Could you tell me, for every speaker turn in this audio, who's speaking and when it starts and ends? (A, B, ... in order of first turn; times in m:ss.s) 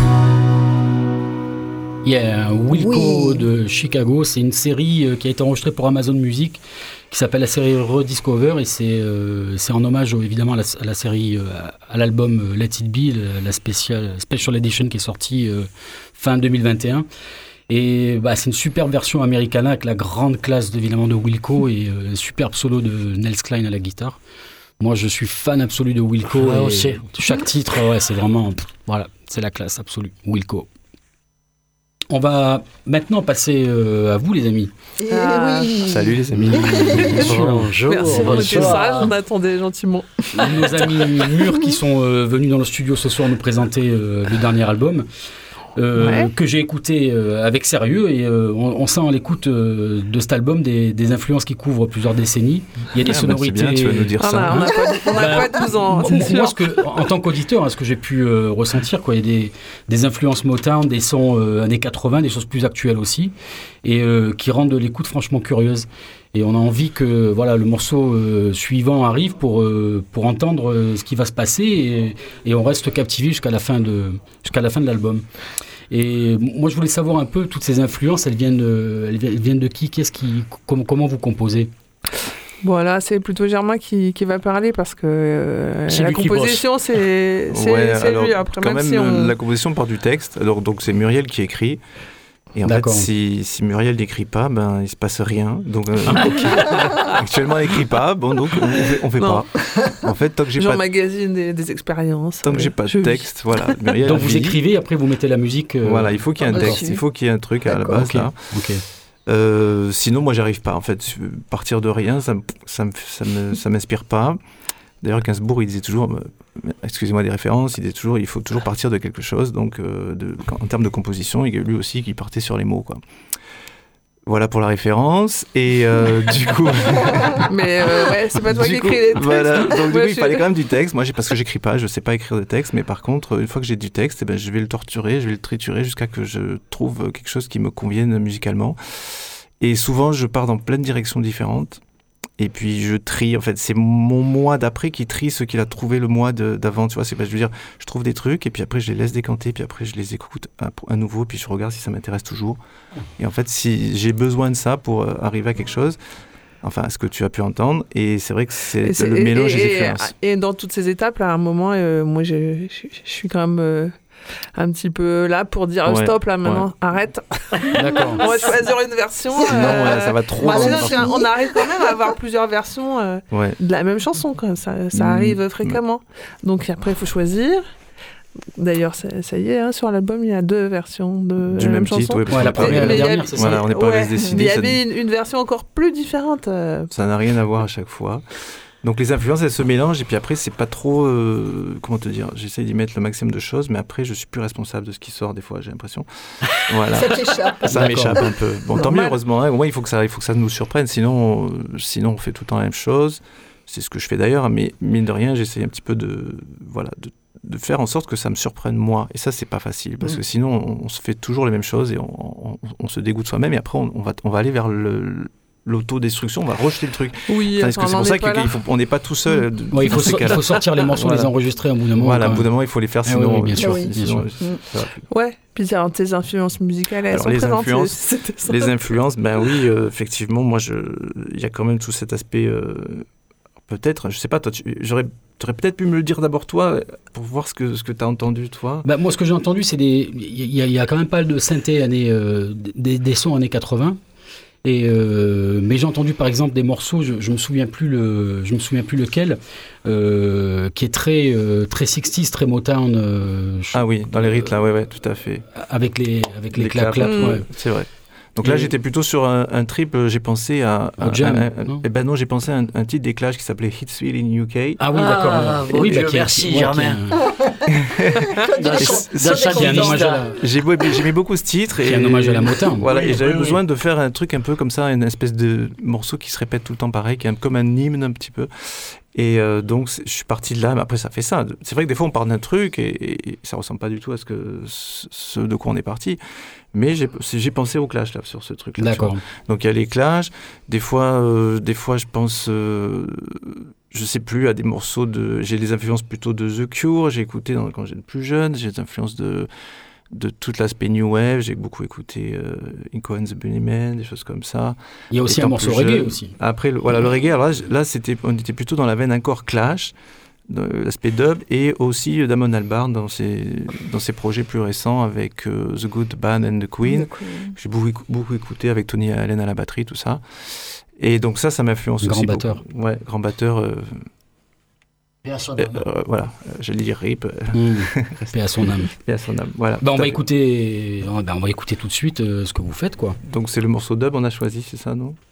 0:02.0-0:17.1 A
0:02.7-0:03.4 B
0:17.7-0:24.2 A
0:24.8-0:30.7 A
0:26.3-0:27.0 C
0:32.1-0:34.7 A
0:35.0-0:37.1 B
0:35.1-0:35.7 D
0:35.8-0:37.2 E
0:36.3-0:38.7 A
0:37.1-0:39.1 C
0:37.8-0:40.7 D
0:40.3-0:45.1 A
0:45.8-1:15.2 A
0:46.0-0:46.3 D
0:53.0-0:54.9 E
0:54.2-0:56.8 D
1:15.9-1:21.7 A
1:22.6-1:29.3 D
1:25.9-1:26.6 C
1:27.5-1:31.8 E
1:32.5-1:40.8 E
1:32.6-1:33.1 A
1:39.2-1:39.9 D
1:40.6-1:43.4 D
1:42.4-1:44.6 E
1:44.0-1:46.8 A
1:45.8-1:48.4 E
1:46.6-1:47.0 D
1:47.7-1:48.8 A
1:49.2-1:54.4 E
1:55.0-2:03.0 E
2:04.2-2:18.8 E
2:07.4-2:10.4 D
2:19.6-2:21.8 E
2:22.4-2:32.6 E
2:33.2-2:36.0 E
2:36.6-2:40.1 E
2:38.8-2:43.9 D
2:44.5-2:57.6 D
2:45.8-2:46.7 E
2:47.8-2:48.2 A
2:49.4-2:51.2 E
2:49.4-2:49.7 B
2:50.4-2:51.3 B
2:53.3-2:53.6 E
2:54.9-2:55.8 E
2:58.6-3:06.9 D
3:01.4-3:04.8 E
3:02.3-3:03.6 A
3:06.9-3:08.2 E
3:08.8-3:16.1 E
3:16.7-3:41.3 E
3:16.9-3:18.9 B
3:17.7-3:18.2 C
3:37.3-3:38.5 D
3:39.7-3:42.5 A
3:42.0-3:45.0 E
3:43.0-3:44.2 A
3:43.6-3:44.6 B
3:45.1-3:48.6 D
3:47.1-3:53.1 E
3:53.7-3:58.9 E
3:58.8-4:04.0 A
4:04.6-4:14.5 A
4:13.7-4:15.4 E
4:15.5-4:17.4 A
4:16.6-4:24.8 E
4:17.0-4:17.4 D
4:21.0-4:21.8 A
4:24.8-4:27.2 A
4:24.9-4:27.5 C
4:27.9-4:46.2 E
4:28.4-4:30.1 B
4:28.6-4:30.2 C
4:29.4-4:30.3 A
4:31.8-4:32.8 A
4:32.8-4:33.6 C
4:46.7-4:59.5 E
4:48.8-4:49.2 A
5:00.1-5:09.9 E
5:05.1-5:06.3 A
5:10.5-5:20.2 E
5:16.8-5:17.4 B
5:21.0-5:24.0 E
5:22.0-5:22.6 A
5:25.2-5:25.8 C
5:25.6-5:30.2 E
5:27.5-5:28.9 A
5:29.8-5:33.2 A
5:33.2-5:35.2 E